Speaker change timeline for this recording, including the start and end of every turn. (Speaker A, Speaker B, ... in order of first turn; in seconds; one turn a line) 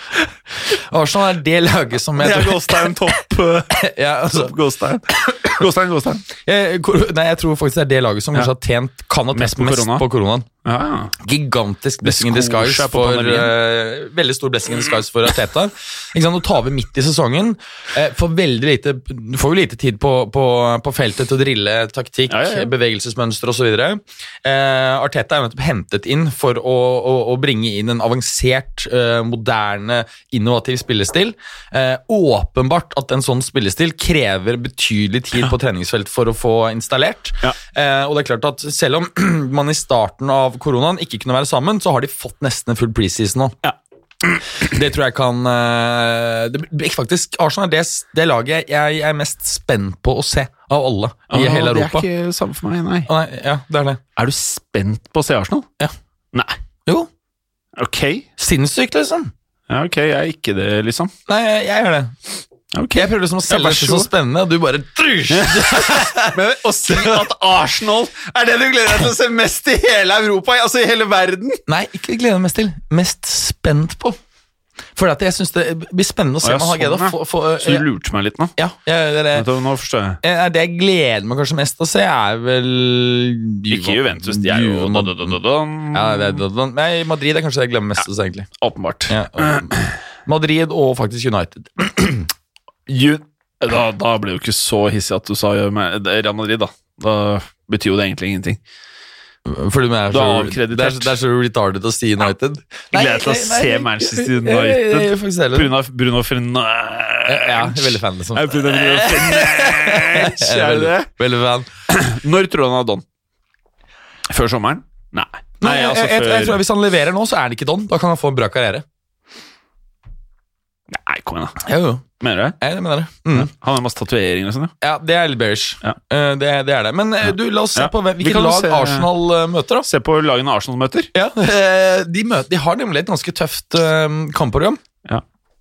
Speaker A: 0.7-2.9
Speaker B: 2.2-6.2
Speaker A: 3.7-4.5
Speaker A: 6.4-10.5
Speaker B: 9.3-10.1
Speaker B: 10.6-11.1
Speaker A: 11.2-43.6
Speaker B: 12.0-13.5
Speaker B: 22.3-22.7
Speaker A: 44.5-52.1
Speaker B: 51.3-53.1
Speaker A: 53.1-54.0
Speaker B: 54.2-55.7
Speaker B: 57.8-58.3
Speaker A: 58.4-59.3
Speaker B: 59.7-61.1
Speaker A: 61.3-62.1
Speaker B: 62.7-64.1
Speaker A: 63.0-66.4
Speaker B: 65.3-71.6
Speaker A: 66.9-67.2
Speaker A: 71.7-74.2
Speaker A: 75.0-77.8
Speaker B: 76.4-78.5
Speaker A: 78.6-79.5
Speaker B: 79.3-80.2
Speaker A: 80.2-85.4
Speaker B: 83.7-86.4
Speaker A: 85.9-88.5
Speaker B: 88.6-89.8
Speaker A: 89.1-92.3
Speaker B: 92.9-98.6
Speaker A: 99.5-105.7
Speaker B: 100.1-101.2
Speaker B: 102.9-111.1
Speaker A: 107.3-111.7
Speaker B: 111.9-113.0
Speaker B: 114.3-116.6
Speaker A: 115.6-118.8
Speaker B: 120.9-121.6
Speaker A: 121.6-122.0
Speaker B: 122.2-122.6
Speaker A: 122.6-123.5
Speaker B: 123.3-124.7
Speaker A: 124.8-129.9
Speaker B: 127.2-129.1
Speaker B: 129.9-131.1
Speaker A: 131.1-134.8